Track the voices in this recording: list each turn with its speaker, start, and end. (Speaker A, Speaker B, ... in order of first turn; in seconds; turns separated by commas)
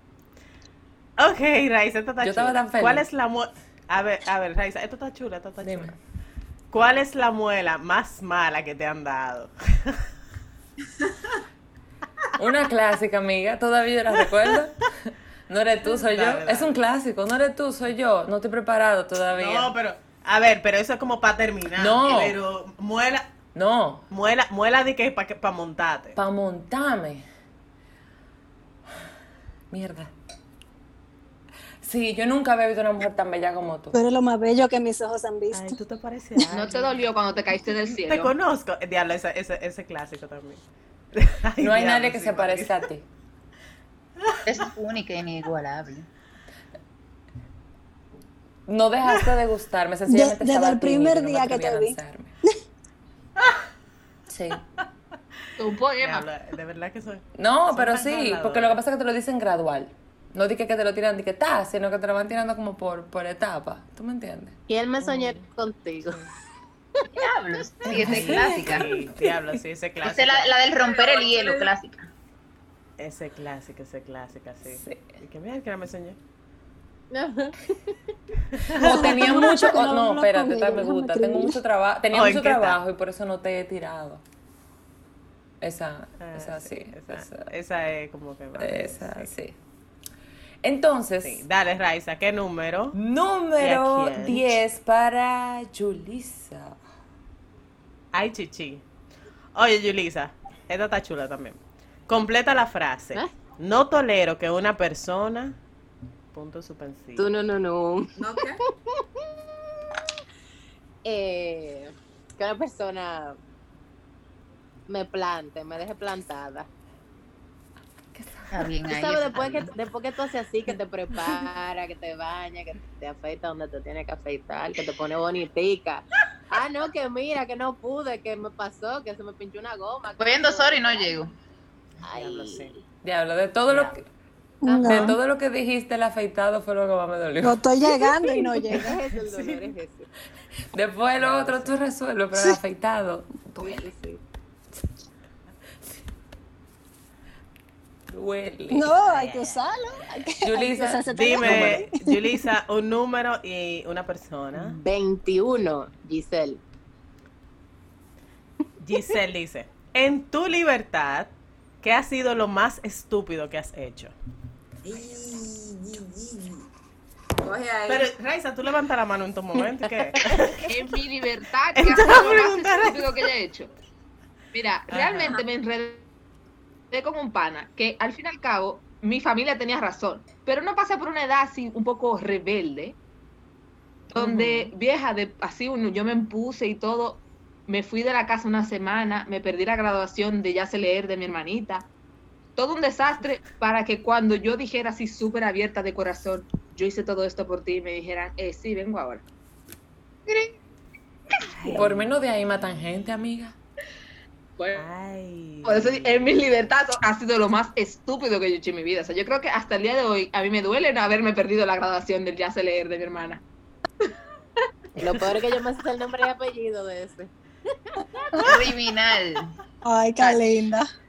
Speaker A: 1.2-6.0, Speaker B: 2.2-3.1, Speaker B: 5.6-6.0, Speaker A: 6.7-10.1, Speaker B: 12.4-19.7, Speaker A: 15.8-16.8, Speaker A: 19.4-23.3, Speaker B: 21.8-22.4, Speaker B: 23.5-24.1, Speaker A: 24.1-26.2, Speaker B: 26.2-27.3, Speaker B: 29.7-30.1, Speaker B: 31.8-34.0, Speaker C: 33.9-35.8, Speaker A: 35.5-37.0, Speaker D: 36.5-38.3, Speaker A: 37.9-42.8, Speaker B: 41.6-43.1, Speaker E: 44.5-46.1, Speaker B: 48.7-52.3, Speaker C: 50.1-52.0, Speaker B: 54.3-54.7, Speaker D: 55.6-56.3, Speaker A: 56.0-58.8, Speaker B: 57.4-64.6, Speaker F: 64.7-66.2, Speaker A: 65.0-65.5, Speaker E: 67.1-68.9, Speaker B: 67.9-68.9, Speaker A: 67.9-70.6, Speaker E: 70.0-72.1, Speaker A: 73.0-76.2, Speaker B: 74.7-75.0, Speaker F: 77.1-78.0, Speaker A: 78.5-79.1, Speaker C: 78.7-81.6, Speaker B: 78.7-84.2, Speaker A: 82.1-82.8, Speaker B: 85.6-87.5, Speaker A: 86.2-89.3, Speaker B: 88.6-89.6, Speaker B: 90.6-91.4, Speaker A: 91.2-93.0, Speaker B: 93.0-96.8, Speaker A: 93.6-94.6, Speaker A: 98.1-98.8, Speaker A: 99.5-105.6, Speaker A: 106.3-107.3, Speaker F: 107.2-109.2, Speaker G: 108.2-108.6, Speaker F: 111.0-113.4, Speaker F: 114.9-116.7, Speaker B: 118.2-118.7, Speaker E: 118.5-119.7, Speaker F: 118.9-131.2, Speaker E: 130.2-131.3, Speaker F: 132.0-132.8, Speaker A: 132.0-132.8, Speaker B: 133.0-134.1, Speaker A: 133.7-134.0, Speaker C: 134.6-135.2, Speaker F: 134.6-135.2, Speaker B: 134.8-137.6, Speaker C: 137.4-139.0, Speaker F: 138.7-140.1, Speaker A: 139.2-139.7, Speaker B: 140.7-143.9, Speaker A: 141.2-141.7, Speaker F: 143.6-144.2, Speaker B: 148.1-149.0, Speaker C: 148.7-152.3, Speaker A: 149.0-149.6, Speaker B: 150.4-151.9, Speaker A: 151.1-154.8, Speaker F: 154.6-156.6, Speaker A: 158.8-164.1, Speaker G: 164.8-166.7, Speaker G: 167.4-168.1, Speaker A: 167.9-170.7, Speaker D: 170.7-173.7, Speaker A: 171.8-173.1, Speaker D: 174.5-176.1, Speaker A: 174.9-175.4, Speaker D: 176.9-183.0, Speaker D: 184.1-191.9, Speaker A: 184.2-184.7, Speaker D: 192.6-199.2, Speaker E: 200.3-200.6, Speaker A: 201.5-202.1, Speaker B: 201.7-203.6, Speaker D: 204.6-204.8, Speaker A: 204.7-206.3, Speaker D: 205.6-213.4, Speaker F: 215.0-217.3, Speaker E: 218.3-219.6, Speaker C: 219.8-220.9